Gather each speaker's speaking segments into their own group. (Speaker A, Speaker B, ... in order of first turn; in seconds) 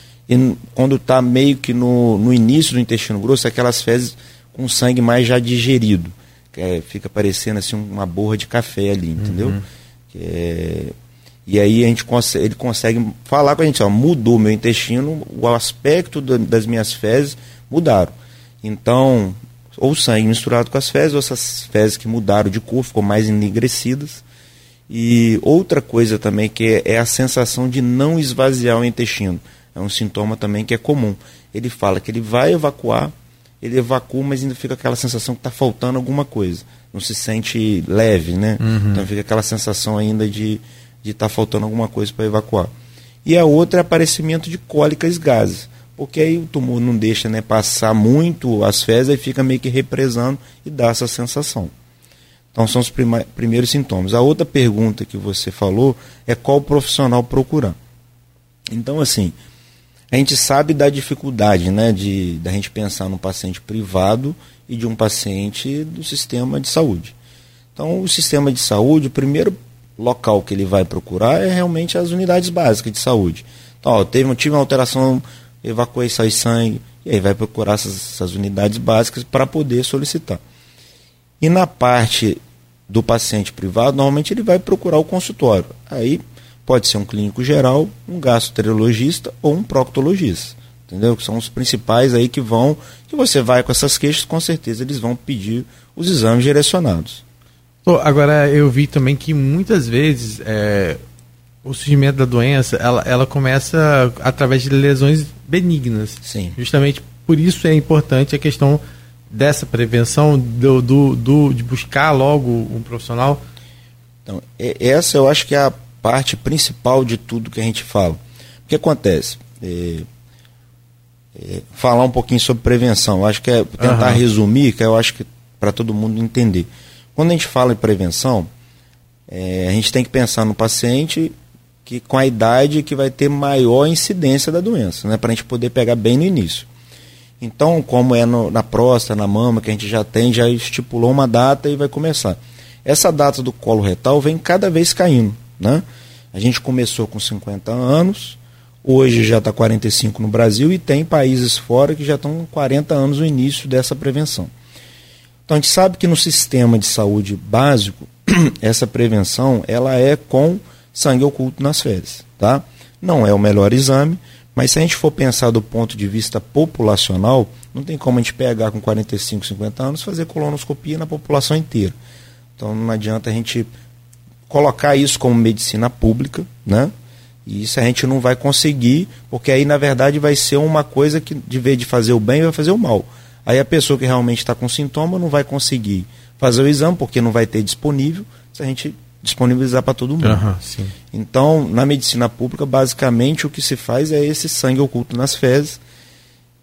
Speaker A: 0.3-9.6, 10.1-10.9, 11.4-24.2, 24.9-42.7, 43.2-51.7, 52.5-57.8, 58.7-59.3, 60.1-67.1, 67.8-80.4, 81.4-97.2, 106.2-106.5, 114.2-120.0, 121.3-128.5, 129.3-131.3, 131.8-136.7, 137.4-154.5, 155.5-171.9, 172.6-173.7, 174.5-176.9, 177.4-190.4, 191.1-195.8
Speaker B: 9.2-9.6, 38.6-39.0, 97.8-101.0, 101.6-113.4, 123.8-124.2, 190.2-190.9